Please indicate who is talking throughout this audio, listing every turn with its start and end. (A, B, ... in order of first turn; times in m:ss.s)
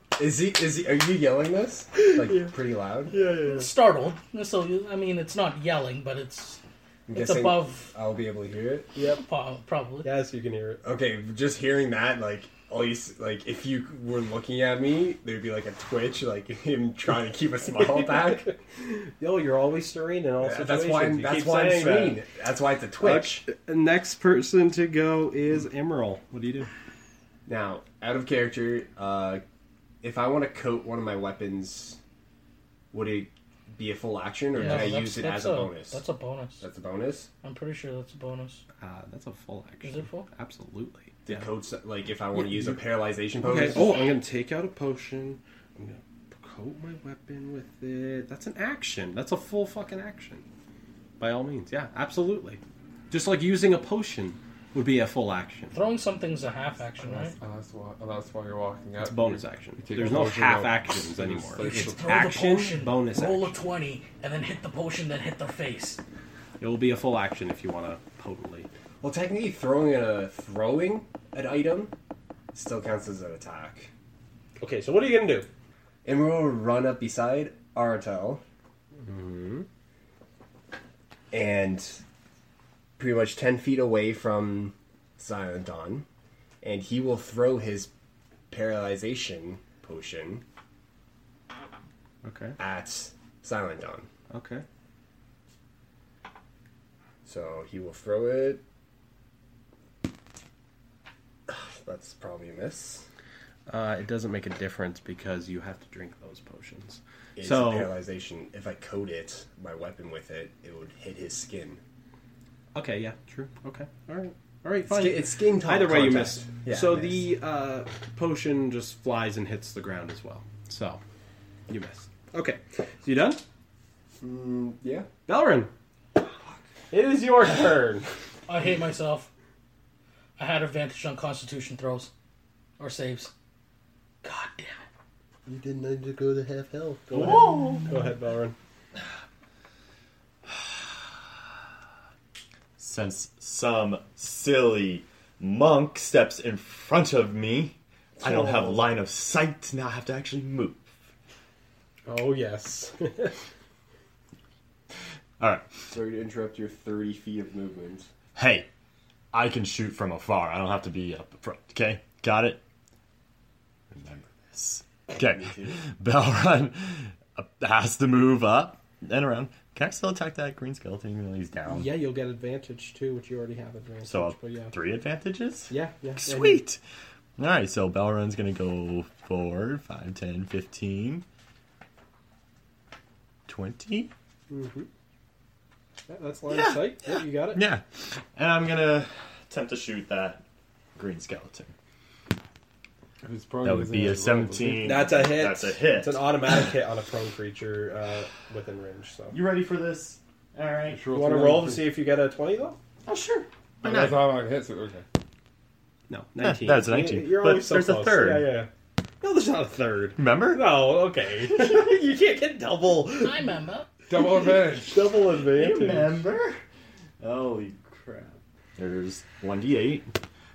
0:00.2-0:03.2 A
0:02.0-0:02.5 B
0:03.1-0:03.7 B
0:03.3-0:06.6 C
0:07.1-0:08.9 A
0:07.1-0:07.9 C
0:09.0-0:10.1 C
0:10.0-0:10.8 B
0:10.8-0:18.5 A
0:17.7-0:22.2 B
0:20.4-0:23.4 A
0:23.0-0:26.7 B
0:27.5-0:29.4 A
0:30.0-0:32.0 A
0:32.9-0:36.0 A
0:34.6-0:35.2 B
0:34.6-0:36.6 C
0:36.6-0:37.3 A
0:37.4-0:38.6 C
0:38.8-0:41.5 B
0:39.8-0:40.3 C
0:41.3-0:44.2 A
0:42.4-0:42.8 B
0:43.4-0:50.4 B
0:51.2-0:55.8 B
0:55.7-0:57.4 C
0:57.0-1:02.1 D
0:59.0-1:03.6 B
1:01.6-1:06.0 C
1:06.6-1:08.7 B
1:09.0-1:11.9 A
1:12.5-1:13.9 A
1:14.6-1:15.5 B
1:16.0-1:18.4 A
1:19.0-1:19.7 B
1:21.3-1:22.0 A
1:23.0-1:26.1 A
1:26.6-1:27.9 A
1:28.5-1:30.4 A
1:32.2-1:32.6 B
1:32.6-1:34.1 A
1:34.3-1:34.6 B
1:37.2-1:38.6 A
1:41.5-1:43.1 A
1:43.7-1:47.9 B
1:47.4-1:51.8 A
1:52.7-2:01.0 B
1:54.9-1:57.2 A
2:01.7-2:03.4 B
2:04.2-2:05.1 A
2:05.3-2:05.7 B
2:06.9-2:08.1 B
2:08.5-2:09.3 C
2:10.4-2:12.1 C
2:12.8-2:13.3 C
2:14.2-2:14.8 C
2:15.5-2:16.9 A
2:16.3-2:18.6 B
2:17.1-2:17.9 E
2:22.8-2:30.9 E
2:28.2-2:28.8 A
2:32.1-2:33.4 B
2:35.4-2:35.8 E
2:35.9-2:38.1 A
2:38.4-2:38.7 E
2:39.3-2:42.6 E
2:43.9-2:51.9 E
2:51.7-2:54.8 B
2:54.1-2:56.8 E
2:55.7-2:56.6 B
2:57.4-3:01.2 E
3:03.5-3:04.1 E
3:04.5-3:04.9 B
3:06.1-3:07.6 B
3:06.5-3:10.4 E
3:11.0-3:11.7 E
3:13.2-3:15.0 D
3:13.6-3:16.8 E
3:14.8-3:19.4 B
3:19.3-3:21.0 E
3:20.9-3:21.9 D
3:21.1-3:22.8 B
3:23.0-3:24.2 E
3:23.8-3:25.0 D
3:26.1-3:28.7 B
3:26.4-3:28.5 E
3:29.2-3:33.5 B
3:30.2-3:30.6 E
3:33.1-3:33.9 C
3:34.1-3:35.1 D
3:34.2-3:36.2 B
3:35.2-3:36.6 E
3:37.2-3:40.1 E